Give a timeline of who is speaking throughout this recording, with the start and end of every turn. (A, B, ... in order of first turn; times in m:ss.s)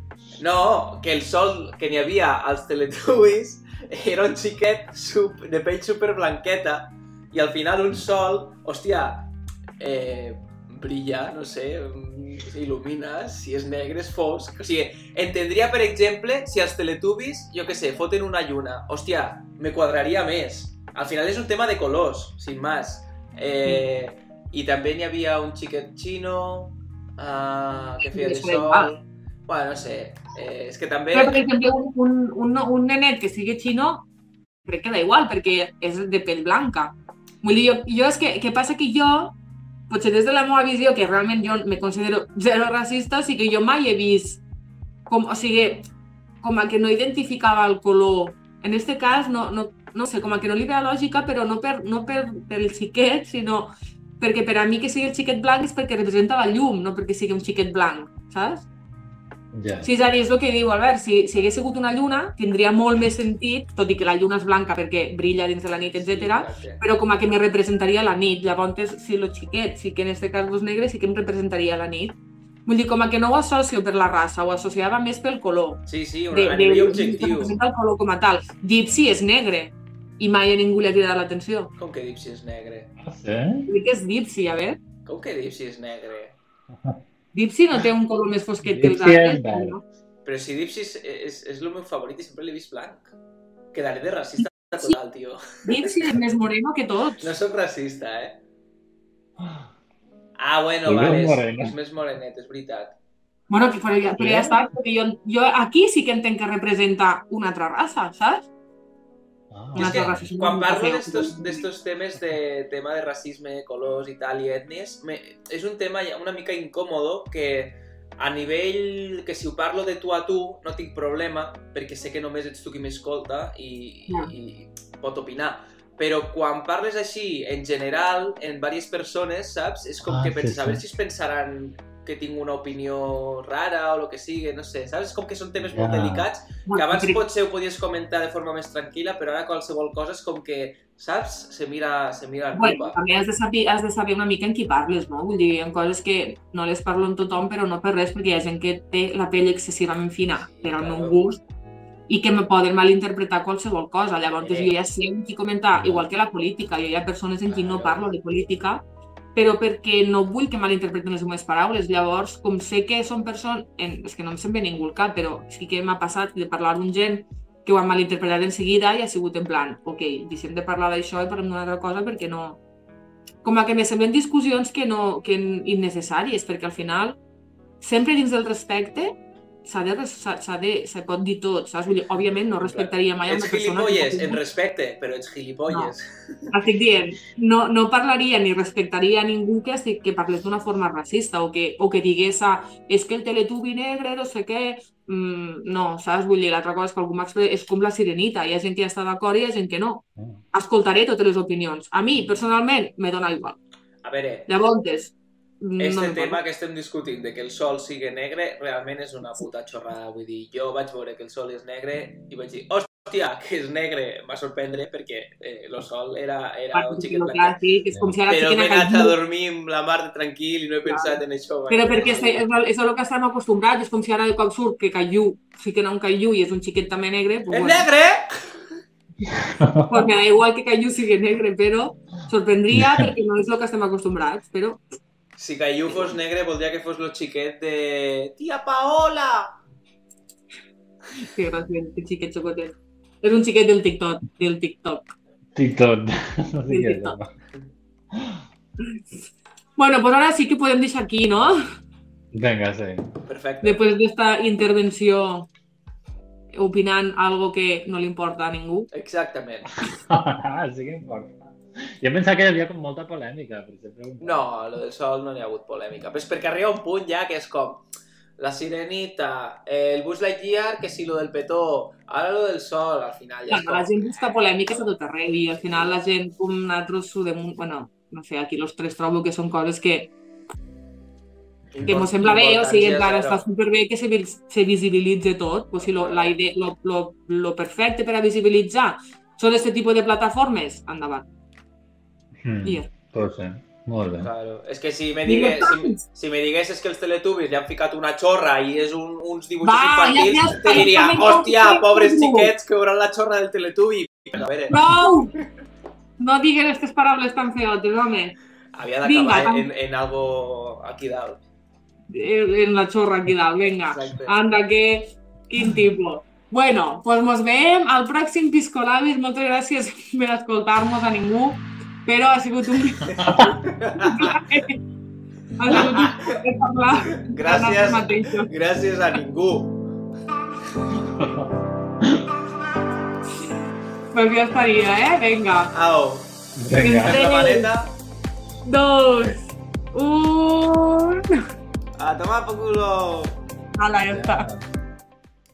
0:00.4-0:31.4 A
0:28.1-0:28.9 B
0:31.1-0:34.0 B
0:34.6-0:39.3 B
0:39.9-0:44.4 B
0:45.1-0:45.8 B
0:46.4-0:58.7 B
0:59.5-0:59.9 C
0:59.8-1:21.7 B
1:05.8-1:06.8 A
1:15.9-1:17.6 A
1:21.8-1:22.9 A
1:23.0-1:23.7 C
1:23.7-1:24.8 B
1:25.0-1:26.4 A
1:26.7-1:27.0 C
1:27.3-1:29.8 B
1:28.6-1:29.8 C
1:30.2-1:33.1 A
1:33.7-1:35.9 A
1:35.6-1:37.3 B
1:37.2-1:38.4 A
1:39.4-1:39.7 C
1:40.4-1:42.9 A
1:40.8-1:41.7 C
1:43.5-1:48.5 B
1:44.2-1:44.6 C
1:49.5-1:50.3 C
1:49.8-1:51.7 B
1:49.8-2:23.0 A
2:10.0-2:10.8 C
2:15.7-2:16.3 C
2:16.7-2:17.2 B
2:22.5-2:31.4 B
2:30.3-2:31.2 A
2:32.1-2:38.8 B
2:34.4-2:34.7 A
2:37.5-2:38.1 A
2:39.3-2:52.6 B
2:53.4-2:57.2 B
2:57.8-3:04.4 B
3:02.6-3:06.5 A
3:06.5-3:23.6 B
3:24.0-3:24.5 A
3:24.5-3:26.4 B
3:25.8-3:37.6 A
3:36.7-3:39.1 B
3:38.3-3:42.4 A
3:40.8-3:47.9 B
3:47.5-3:48.5 A
3:49.4-3:50.0 C
3:49.9-3:54.8 B
3:52.7-3:53.1 C
3:55.4-3:59.5 A
4:01.2-4:05.0 B
4:05.5-4:07.3 C
4:06.7-4:07.2 B
4:08.1-4:08.4 C
4:09.8-4:11.5 B
4:12.3-4:13.1 C
4:13.2-4:13.8 A
4:13.6-4:15.5 B
4:16.5-4:18.9 B
4:18.9-4:19.7 A
4:19.9-4:24.4 C
4:24.2-4:27.8 A
4:28.4-4:34.0 A
4:33.5-4:40.1 B
4:35.6-4:35.9 A
4:41.7-4:43.4 A
4:41.8-4:51.2 B
4:45.8-4:46.4 A
4:52.4-4:54.3 C
4:52.6-4:52.9 B
4:54.2-5:04.8 A
4:55.2-4:56.0 B
4:59.6-5:02.5 B
5:04.7-5:05.3 B
5:06.2-5:08.4 B
5:08.7-5:11.4 A
5:09.0-5:09.7 B
5:12.1-5:23.3 B
5:13.8-5:14.3 A
5:23.1-5:24.3 A
5:23.2-5:23.6 C
5:24.0-5:24.8 B
5:25.6-5:28.5 B
5:25.7-5:26.4 A
5:27.2-5:29.8 A
5:31.0-5:32.3 C
5:34.1-5:35.7 B
5:35.7-5:37.9 A
5:36.6-5:37.3 C
5:36.7-5:37.7 B
5:38.6-5:41.4 B
5:42.0-5:43.4 A
5:43.8-5:44.5 B
5:44.1-5:44.6 C